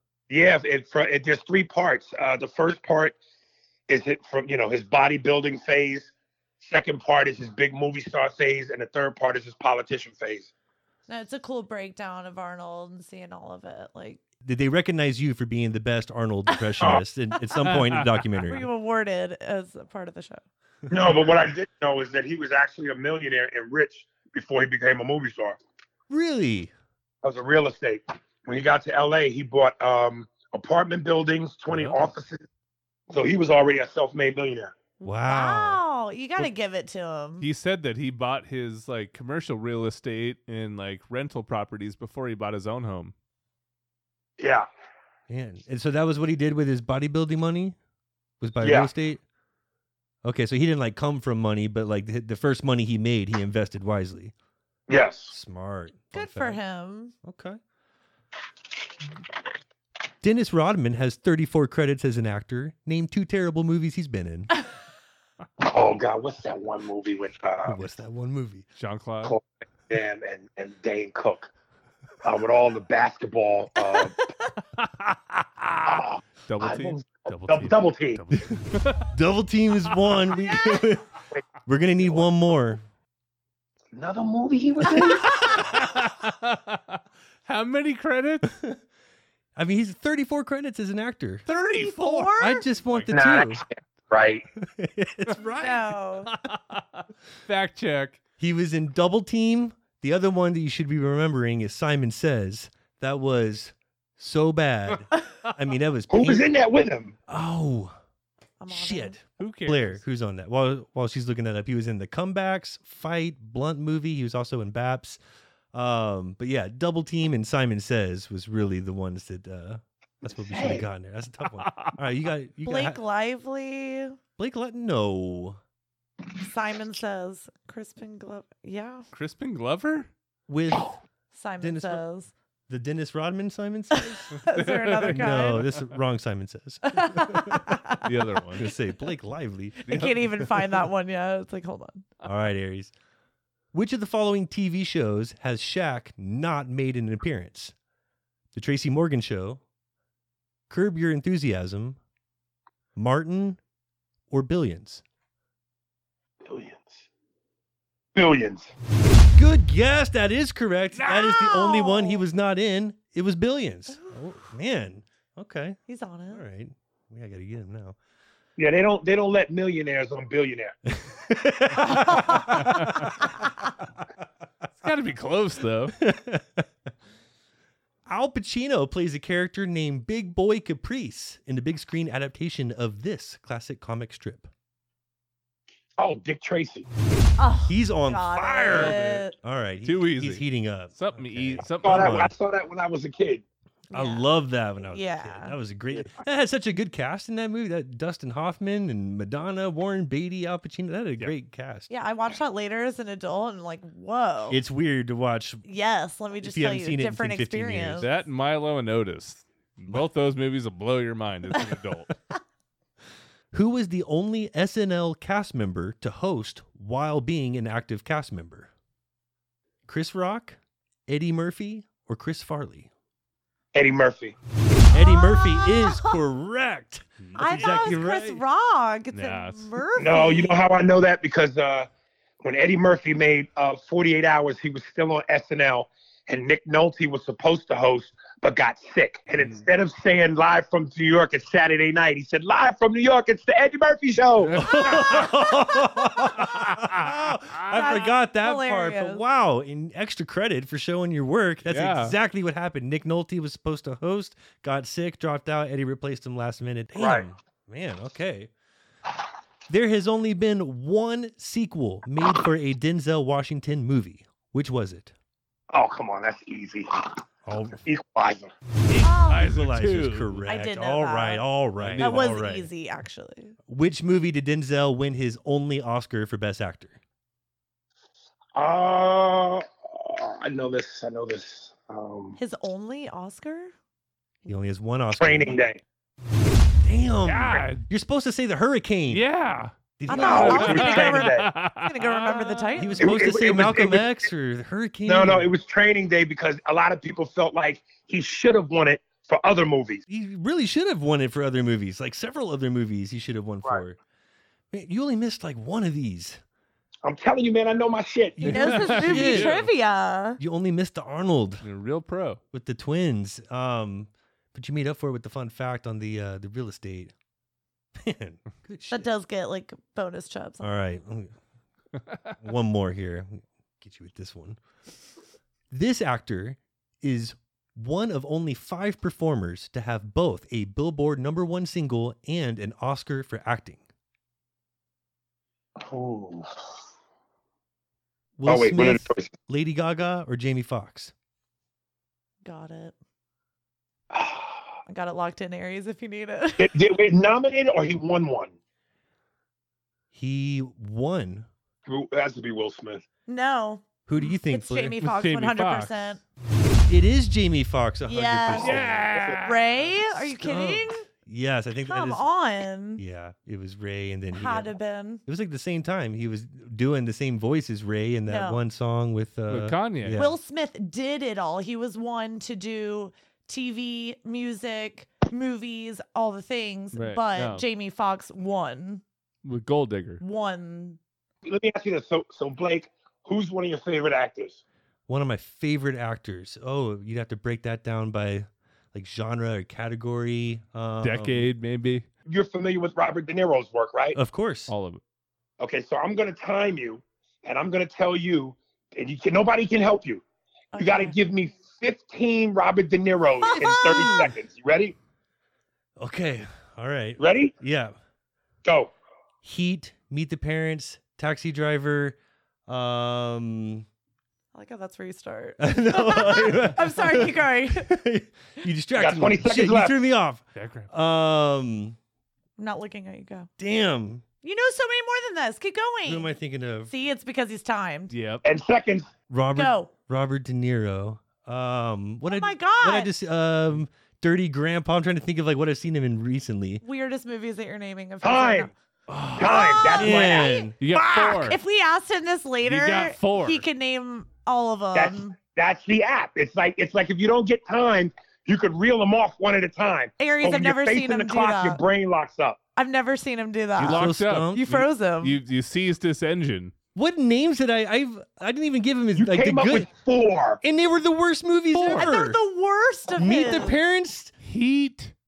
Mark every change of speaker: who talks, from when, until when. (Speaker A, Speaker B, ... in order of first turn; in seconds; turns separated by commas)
Speaker A: 0.3-3.2, Speaker A: 3.9-10.5, Speaker B: 11.1-14.2, Speaker C: 14.4-18.7, Speaker B: 16.5-16.8, Speaker D: 17.7-18.1, Speaker B: 18.4-20.4, Speaker A: 20.9-25.6, Speaker C: 26.1-26.7, Speaker A: 27.2-32.5, Speaker D: 31.7-32.0, Speaker A: 33.1-34.7, Speaker B: 35.0-37.5, Speaker C: 35.0-35.8, Speaker D: 37.4-43.1, Speaker A: 44.4-44.7, Speaker C: 45.3-47.8, Speaker C: 48.4-49.2, Speaker A: 48.6-48.9, Speaker C: 50.2-54.3, Speaker A: 54.9-55.4, Speaker C: 55.3-56.6, Speaker B: 56.1-57.1, Speaker C: 57.2-57.6, Speaker C: 60.2-64.5, Speaker A: 65.6-67.8, Speaker C: 67.7-68.7, Speaker D: 68.8-69.4, Speaker A: 69.2-71.5, Speaker A: 72.2-74.2, Speaker B: 73.9-74.4, Speaker D: 74.8-79.1, Speaker A: 75.9-78.2, Speaker C: 79.1-81.1, Speaker C: 81.7-82.8, Speaker A: 83.9-85.7, Speaker C: 84.9-85.3, Speaker D: 85.4-88.5, Speaker C: 89.6-91.4, Speaker D: 91.5-93.3, Speaker B: 91.8-92.6, Speaker C: 92.4-93.6, Speaker A: 93.1-94.5, Speaker C: 94.6-95.9, Speaker B: 95.6-96.3, Speaker D: 96.3-98.2, Speaker C: 98.4-106.5, Speaker A: 106.1-107.2, Speaker C: 107.3-107.9, Speaker B: 108.6-109.2, Speaker C: 108.7-115.2, Speaker D: 109.4-110.0, Speaker C: 115.7-123.0, Speaker A: 120.4-120.8, Speaker D: 121.6-122.0, Speaker B: 122.7-124.2, Speaker C: 124.4-125.6, Speaker B: 126.4-129.1, Speaker D: 129.1-130.1, Speaker C: 130.5-131.0, Speaker B: 131.3-132.3, Speaker C: 131.6-132.0, Speaker C: 132.7-134.4, Speaker B: 134.1-135.7, Speaker D: 134.4-135.8, Speaker C: 135.0-137.7, Speaker B: 136.9-138.1, Speaker D: 138.0-138.7, Speaker C: 138.6-140.0, Speaker B: 139.8-142.1, Speaker D: 139.9-140.2, Speaker C: 142.2-142.9, Speaker C: 143.7-147.7, Speaker C: 148.5-149.6, Speaker C: 150.7-152.0, Speaker C: 153.0-153.6, Speaker C: 154.3-155.0, Speaker A: 156.4-157.1, Speaker A: 158.2-158.7, Speaker C: 159.3-168.0, Speaker B: 161.3-162.2, Speaker B: 165.9-166.4, Speaker A: 168.6-170.8, Speaker C: 171.0-173.2, Speaker B: 171.8-172.9, Speaker D: 174.8-176.0, Speaker C: 176.0-176.7, Speaker C: 178.1-184.5, Speaker A: 186.0-186.9, Speaker B: 187.4-189.3, Speaker C: 187.7-192.3, Speaker D: 188.7-189.3, Speaker D: 189.8-192.3, Speaker A: 191.8-193.4, Speaker B: 193.9-194.2, Speaker C: 193.9-201.9, Speaker B: 194.9-195.5, Speaker B: 201.9-204.6, Speaker C: 204.5-205.7, Speaker B: 205.6-208.1, Speaker C: 206.4-208.1, Speaker D: 208.0-212.2, Speaker C: 213.5-218.7, Speaker C: 219.9-222.9, Speaker A: 223.7-224.3, Speaker B: 224.9-226.2, Speaker C: 224.9-228.4, Speaker D: 227.2-228.0, Speaker B: 227.4-230.6, Speaker D: 229.1-229.7, Speaker A: 230.0-231.9, Speaker A: 232.4-244.7, Speaker D: 244.4-245.3, Speaker C: 244.6-258.5, Speaker D: 246.4-248.0, Speaker B: 247.7-249.2, Speaker D: 251.7-252.2, Speaker A: 257.0-257.2, Speaker C: 259.7-265.1, Speaker A: 265.7-267.2, Speaker C: 267.5-267.8, Speaker A: 267.8-268.5, Speaker D: 268.9-270.4, Speaker C: 269.0-272.7, Speaker B: 269.0-269.5, Speaker B: 270.5-271.4, Speaker D: 271.8-272.4, Speaker B: 272.0-273.6, Speaker C: 273.7-277.0, Speaker A: 278.6-282.4, Speaker B: 282.4-283.7, Speaker C: 284.5-285.6, Speaker A: 285.2-285.8, Speaker C: 286.8-289.2, Speaker D: 287.2-287.9, Speaker D: 289.1-292.8, Speaker C: 290.0-291.1, Speaker B: 290.1-293.2, Speaker A: 290.1-291.5, Speaker C: 292.8-295.5, Speaker A: 293.0-294.2, Speaker A: 295.1-300.0, Speaker C: 300.1-304.0, Speaker C: 304.7-306.4, Speaker A: 307.1-308.6, Speaker C: 308.4-309.6, Speaker D: 308.4-309.7, Speaker B: 308.4-310.4, Speaker C: 310.4-311.6, Speaker D: 311.6-312.4, Speaker C: 312.5-317.1, Speaker C: 318.0-319.1, Speaker B: 318.9-320.7, Speaker C: 320.6-321.3, Speaker C: 322.4-324.6, Speaker C: 325.7-333.8, Speaker A: 335.8-336.5, Speaker C: 338.4-341.1, Speaker A: 338.5-339.3, Speaker B: 342.4-342.9, Speaker A: 344.1-344.6, Speaker B: 344.9-346.7, Speaker A: 346.6-348.5, Speaker C: 350.1-351.5, Speaker A: 351.9-353.1, Speaker B: 353.3-356.2, Speaker C: 354.1-355.0, Speaker D: 355.0-356.2, Speaker C: 356.9-359.1, Speaker B: 358.1-358.8, Speaker D: 358.5-359.7, Speaker A: 358.7-359.4, Speaker B: 359.4-361.1, Speaker C: 360.2-362.2, Speaker B: 361.9-363.0, Speaker C: 363.0-364.7, Speaker B: 364.3-365.2, Speaker C: 365.3-370.4, Speaker B: 368.3-368.6, Speaker D: 369.5-370.2, Speaker B: 370.2-379.0, Speaker D: 376.9-377.6, Speaker D: 379.4-380.2, Speaker B: 380.2-381.0, Speaker A: 381.5-384.6, Speaker C: 385.1-391.5, Speaker D: 391.0-392.1, Speaker A: 392.3-394.2, Speaker C: 394.1-394.7, Speaker D: 394.7-395.0, Speaker A: 395.6-400.2, Speaker B: 400.7-401.1, Speaker A: 400.8-404.9, Speaker C: 403.4-404.3, Speaker C: 406.0-407.9, Speaker A: 407.2-407.5, Speaker A: 408.6-408.9, Speaker C: 409.4-413.9, Speaker B: 414.5-417.9, Speaker C: 415.6-422.0, Speaker A: 419.0-419.9, Speaker D: 420.6-420.9, Speaker B: 422.6-423.5, Speaker C: 423.6-424.3, Speaker B: 424.4-426.3, Speaker C: 426.1-426.9, Speaker B: 426.9-428.1, Speaker D: 428.1-428.4, Speaker A: 428.4-429.1, Speaker C: 429.3-436.8, Speaker B: 429.6-429.9, Speaker B: 432.3-433.1, Speaker B: 436.8-438.7, Speaker A: 438.2-438.7, Speaker C: 439.1-440.9, Speaker A: 439.4-440.6, Speaker B: 439.4-445.4, Speaker D: 440.8-441.6, Speaker D: 442.6-443.6, Speaker A: 444.9-452.6, Speaker B: 450.2-451.8, Speaker B: 452.8-455.4, Speaker D: 453.8-456.7, Speaker C: 453.8-454.7, Speaker C: 456.9-459.9, Speaker A: 459.2-460.6, Speaker C: 460.6-462.4, Speaker D: 461.7-462.1, Speaker B: 461.9-463.8, Speaker C: 463.1-464.3, Speaker D: 464.4-465.1